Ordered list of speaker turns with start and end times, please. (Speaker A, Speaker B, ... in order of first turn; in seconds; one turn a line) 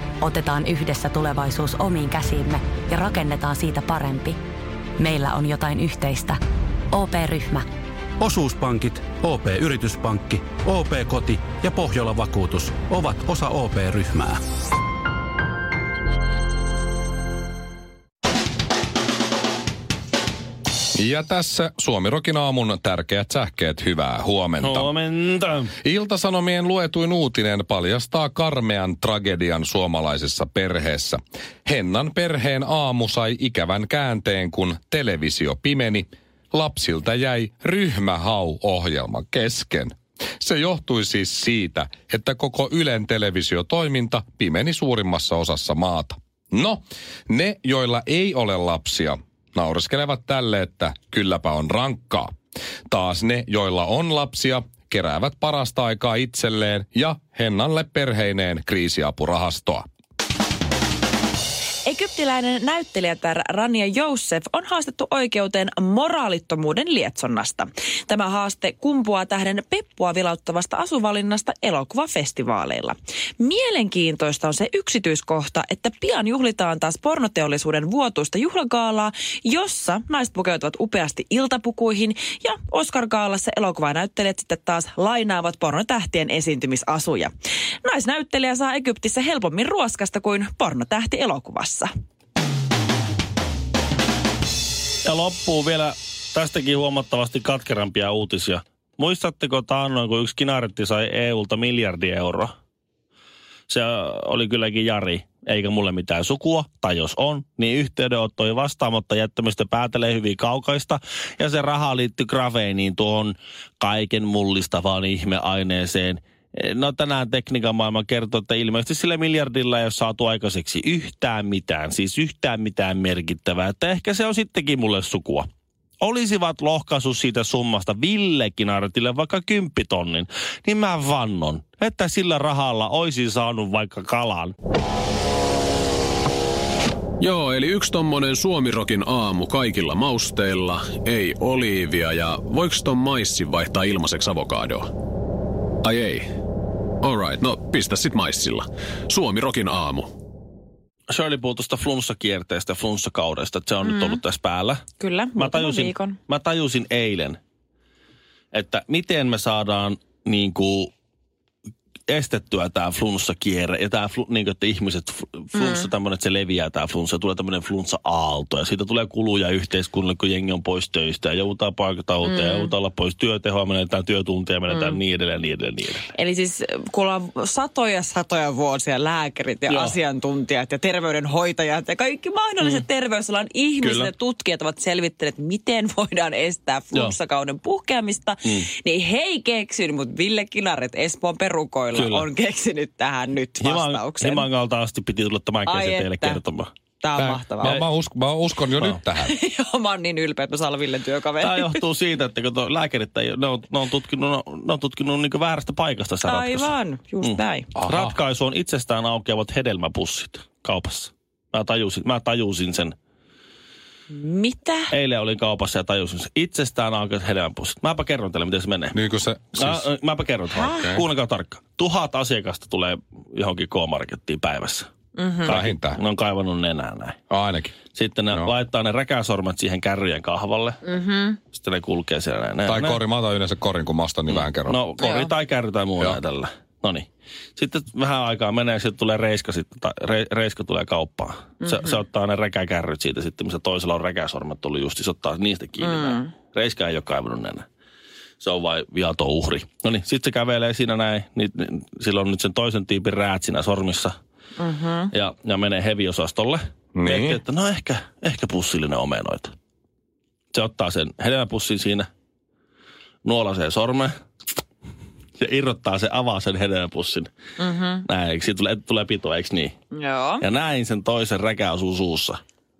Speaker A: 0.2-4.4
Speaker A: 5.0-6.4
Speaker A: 6.9-7.7
Speaker B: 8.2-14.4
Speaker C: 20.9-24.9
Speaker D: 24.6-25.7
Speaker C: 25.8-52.3
Speaker C: 52.9-59.9
Speaker E: 61.9-87.3
Speaker E: 87.8-91.9
Speaker D: 95.0-102.5
Speaker D: 103.7-125.5
Speaker D: 126.0-134.5
Speaker F: 137.2-144.9
Speaker F: 145.8-146.2
Speaker F: 147.0-150.1
Speaker D: 151.1-154.8
Speaker E: 153.8-154.2
Speaker E: 155.0-156.2
Speaker D: 155.4-157.4
Speaker D: 158.5-160.9
Speaker D: 162.1-176.1
Speaker E: 165.6-165.9
Speaker E: 172.2-172.7
Speaker E: 174.7-175.0
Speaker E: 176.1-194.5
Speaker D: 179.7-179.9
Speaker C: 183.8-184.1
Speaker D: 191.9-192.3
Speaker D: 193.6-196.7
Speaker E: 195.7-196.4
Speaker E: 197.0-197.8
Speaker C: 197.2-199.3
Speaker E: 199.2-201.8
Speaker D: 201.4-212.9
Speaker E: 206.2-207.7
Speaker C: 207.8-208.2
Speaker E: 214.1-214.9
Speaker D: 214.9-219.0
Speaker C: 218.9-219.9
Speaker D: 219.6-224.9
Speaker C: 220.7-221.0
Speaker E: 225.2-225.6
Speaker D: 225.4-227.2
Speaker C: 225.5-226.0
Speaker C: 227.3-227.8
Speaker D: 227.9-230.8
Speaker E: 230.8-231.4
Speaker D: 231.5-233.0
Speaker C: 232.7-234.8
Speaker D: 234.3-247.7
Speaker E: 235.0-235.3
Speaker E: 241.6-242.0
Speaker E: 245.8-246.3
Speaker D: 248.4-254.1
Speaker E: 254.6-255.1
Speaker D: 255.1-259.5
Speaker C: 256.9-257.4
Speaker D: 260.5-262.1
Speaker D: 263.2-264.1
Speaker D: 265.4-267.3
Speaker E: 267.6-268.0
Speaker D: 268.1-269.7
Speaker E: 269.9-270.4
Speaker D: 270.4-272.4